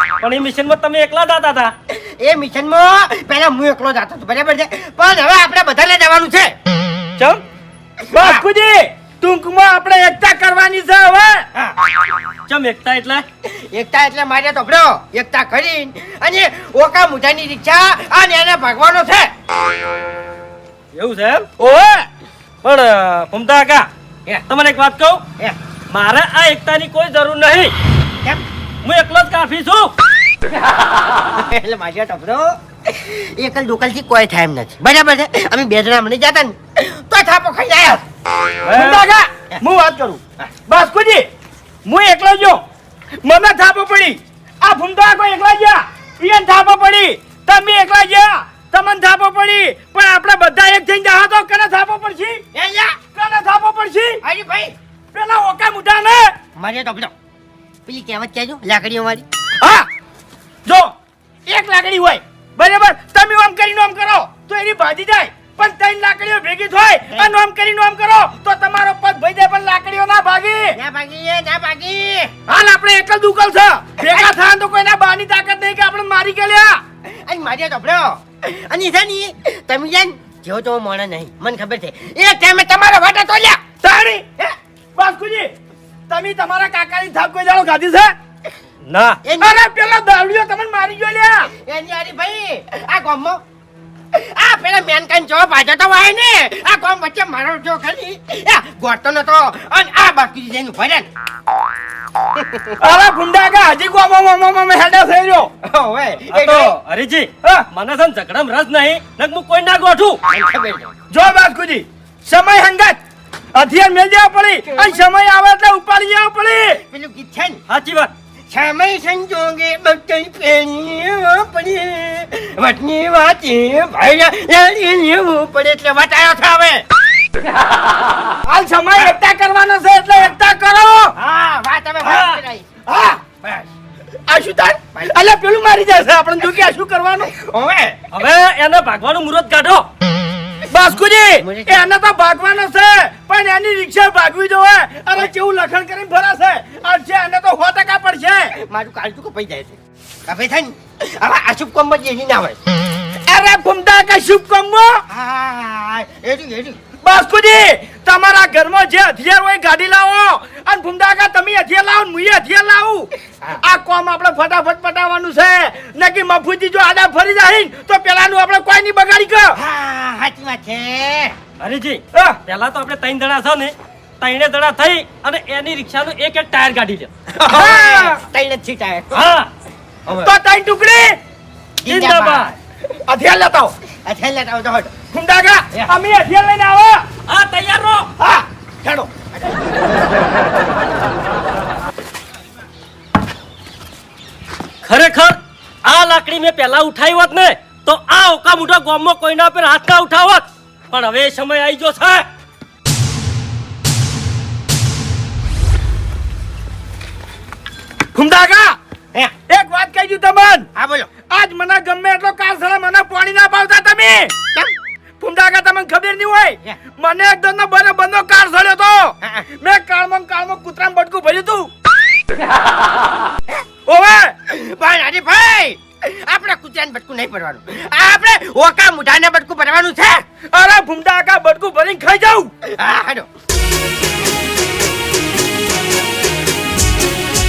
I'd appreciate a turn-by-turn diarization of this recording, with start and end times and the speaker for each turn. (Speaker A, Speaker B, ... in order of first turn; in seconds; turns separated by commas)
Speaker A: 0.2-1.7, Speaker B: 1.9-6.5, Speaker A: 7.2-7.4, Speaker B: 8.1-8.4, Speaker C: 8.1-11.4, Speaker A: 12.5-13.2, Speaker B: 13.4-19.3, Speaker A: 20.9-21.5, Speaker C: 21.6-22.1, Speaker A: 22.6-25.2, Speaker A: 25.9-27.7, Speaker A: 28.8-29.9, Speaker B: 31.3-38.0, Speaker A: 38.7-39.0, Speaker C: 38.7-41.2, Speaker C: 41.8-42.6, Speaker C: 43.2-52.4, Speaker B: 52.5-53.0, Speaker C: 53.1-54.2, Speaker B: 54.2-54.7, Speaker C: 55.1-56.3, Speaker B: 56.6-57.1, Speaker B: 57.9-59.2, Speaker C: 59.6-59.9, Speaker C: 60.6-60.9, Speaker C: 61.5-70.7, Speaker B: 70.8-72.3, Speaker C: 72.5-76.8, Speaker B: 74.0-74.3, Speaker B: 77.1-83.6, Speaker C: 83.8-84.2, Speaker C: 85.0-85.5, Speaker C: 86.1-88.1, Speaker A: 88.8-89.2, Speaker B: 89.2-89.6, Speaker C: 89.4-91.5, Speaker B: 91.5-93.4, Speaker B: 94.1-101.1, Speaker C: 102.8-105.5, Speaker B: 105.6-106.7, Speaker A: 106.3-110.2, Speaker B: 110.3-110.9, Speaker C: 111.1-113.0, Speaker C: 113.5-116.8, Speaker B: 114.7-115.0, Speaker B: 116.9-117.6, Speaker A: 117.7-118.1, Speaker B: 118.5-126.8, Speaker C: 128.4-131.1, Speaker B: 131.2-132.7, Speaker C: 132.0-132.3, Speaker C: 132.9-133.2, Speaker B: 133.4-133.7, Speaker C: 134.3-137.3, Speaker B: 137.3-138.0, Speaker A: 138.1-139.9, Speaker C: 140.7-148.5, Speaker B: 141.4-141.9, Speaker B: 148.6-152.6, Speaker C: 153.3-155.0, Speaker B: 155.1-156.8, Speaker C: 157.0-163.1, Speaker C: 163.6-169.5, Speaker B: 169.6-171.3, Speaker A: 171.6-177.1, Speaker B: 177.3-179.3, Speaker C: 177.5-178.2, Speaker A: 179.1-179.5, Speaker B: 180.1-180.3, Speaker C: 180.2-181.2, Speaker B: 181.8-182.5, Speaker C: 181.9-182.5, Speaker C: 183.1-183.7, Speaker B: 184.0-184.9, Speaker C: 185.1-187.0, Speaker A: 187.3-188.1, Speaker B: 188.8-189.5, Speaker A: 194.8-202.3, Speaker C: 208.1-208.8, Speaker C: 209.5-210.7, Speaker B: 210.8-211.1, Speaker C: 211.3-214.3, Speaker C: 215.2-221.7, Speaker C: 223.8-224.3, Speaker B: 224.5-230.2, Speaker C: 230.5-232.5, Speaker B: 232.8-233.3